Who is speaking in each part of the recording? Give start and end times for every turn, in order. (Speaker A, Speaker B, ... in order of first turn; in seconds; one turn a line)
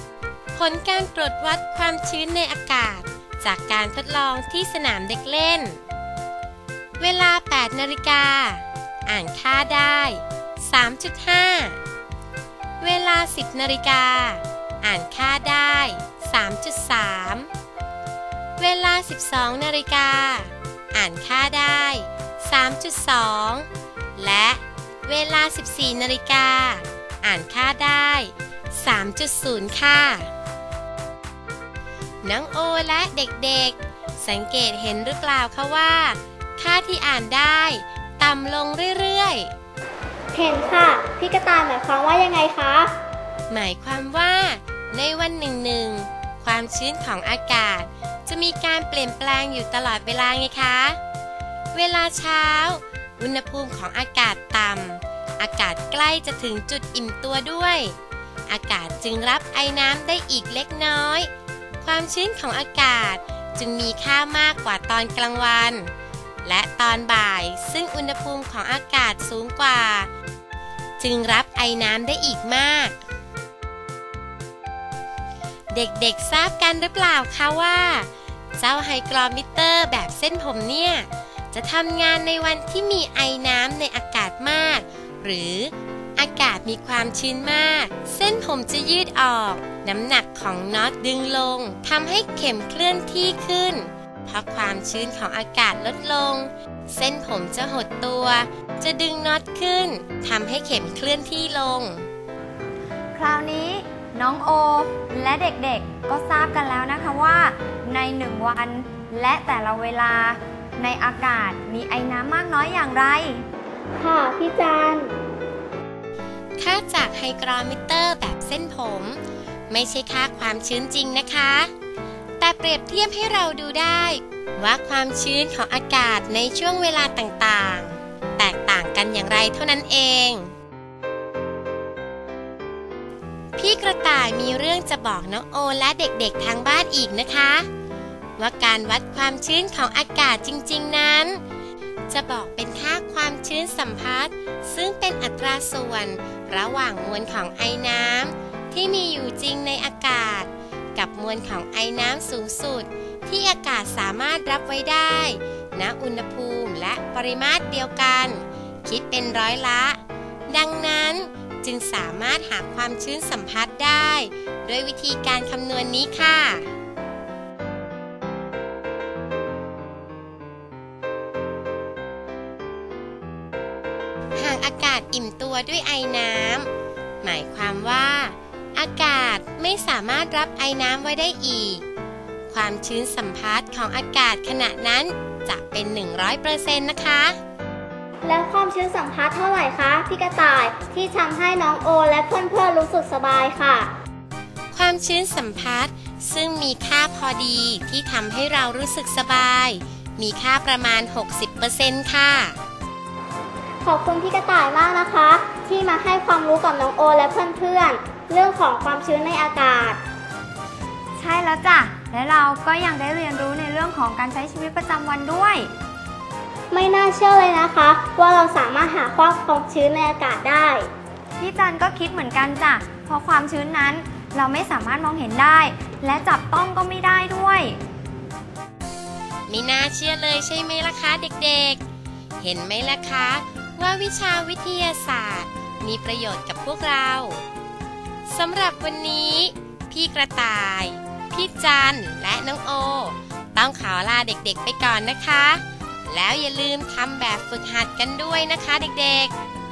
Speaker A: 0.5-5.8
Speaker A: 7.0-11.8
Speaker A: 12.8-17.5
Speaker A: 18.6-23.7
Speaker A: 24.2-30.3
Speaker A: 32.2-39.5
Speaker B: 40.3-42.9
Speaker A: 43.5-51.0
Speaker A: 51.7-57.9
Speaker A: 58.5-61.3
Speaker A: 61.8-65.9
Speaker A: 66.4-70.1
Speaker A: 71.0-73.0
Speaker A: 75.7-102.1
Speaker C: 103.1-113.4
Speaker B: 114.0-115.1
Speaker A: 116.6-121.7
Speaker A: 122.4-130.5
Speaker A: 133.6-137.7
Speaker A: 138.4-141.4
Speaker A: 142.1-160.0
Speaker A: 160.5-166.7
Speaker A: 174.3-176.7
Speaker A: 177.2-181.8
Speaker A: 182.5-187.4
Speaker B: 188.2-193.9
Speaker A: 194.7-202.6
Speaker B: 203.8-210.0
Speaker C: 211.2-215.7
Speaker B: 216.7-220.9
Speaker C: 221.4-227.8
Speaker A: 229.5-231.8
Speaker A: 232.4-237.4
Speaker A: 238.3-249.3